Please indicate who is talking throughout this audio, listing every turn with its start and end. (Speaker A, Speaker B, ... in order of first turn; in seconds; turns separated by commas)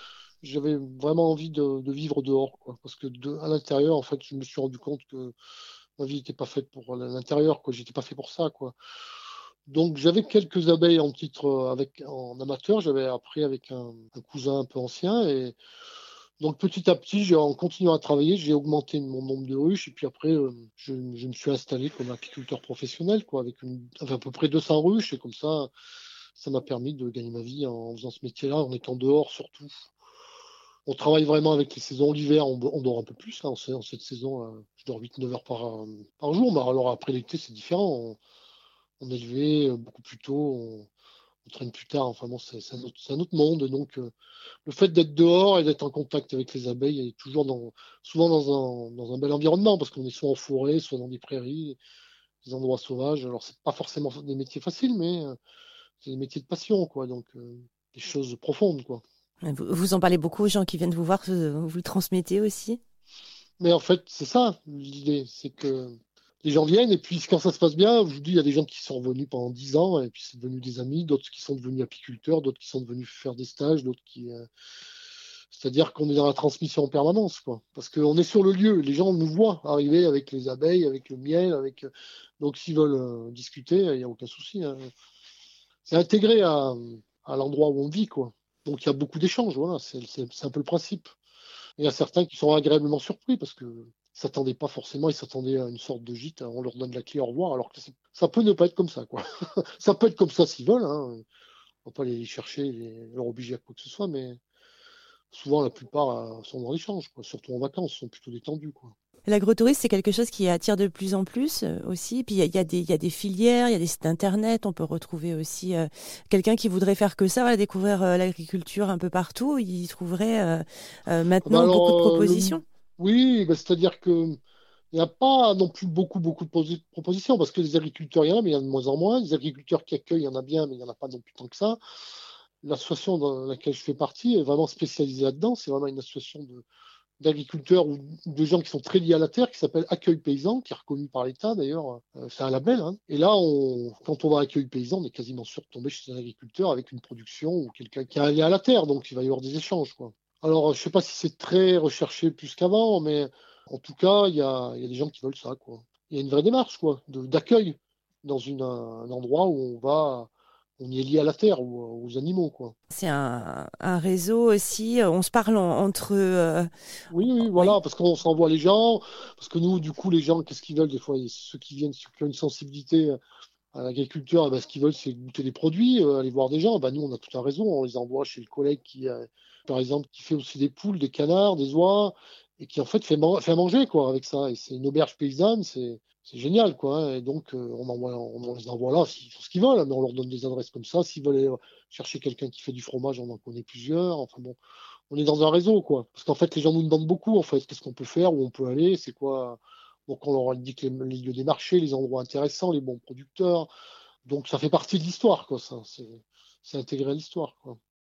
Speaker A: 0.4-5.3, Speaker A: 6.0-8.8, Speaker A: 9.7-15.6, Speaker A: 16.4-25.7, Speaker A: 26.4-29.9, Speaker A: 30.9-38.2, Speaker A: 39.0-40.9, Speaker A: 41.5-44.1, Speaker A: 44.6-51.8, Speaker A: 52.4-55.4, Speaker A: 56.0-59.0, Speaker B: 59.4-62.8, Speaker A: 63.6-74.5, Speaker A: 75.5-84.9, Speaker A: 85.9-91.2, Speaker A: 91.8-101.2, Speaker A: 101.8-104.4, Speaker A: 105.3-109.0, Speaker B: 109.3-122.6, Speaker A: 121.4-124.4, Speaker A: 124.9-131.8, Speaker A: 132.6-136.7, Speaker A: 137.2-162.8, Speaker B: 162.9-166.7, Speaker A: 167.1-173.2, Speaker B: 167.4-167.8, Speaker A: 173.7-194.6, Speaker A: 195.1-203.7, Speaker A: 204.3-207.8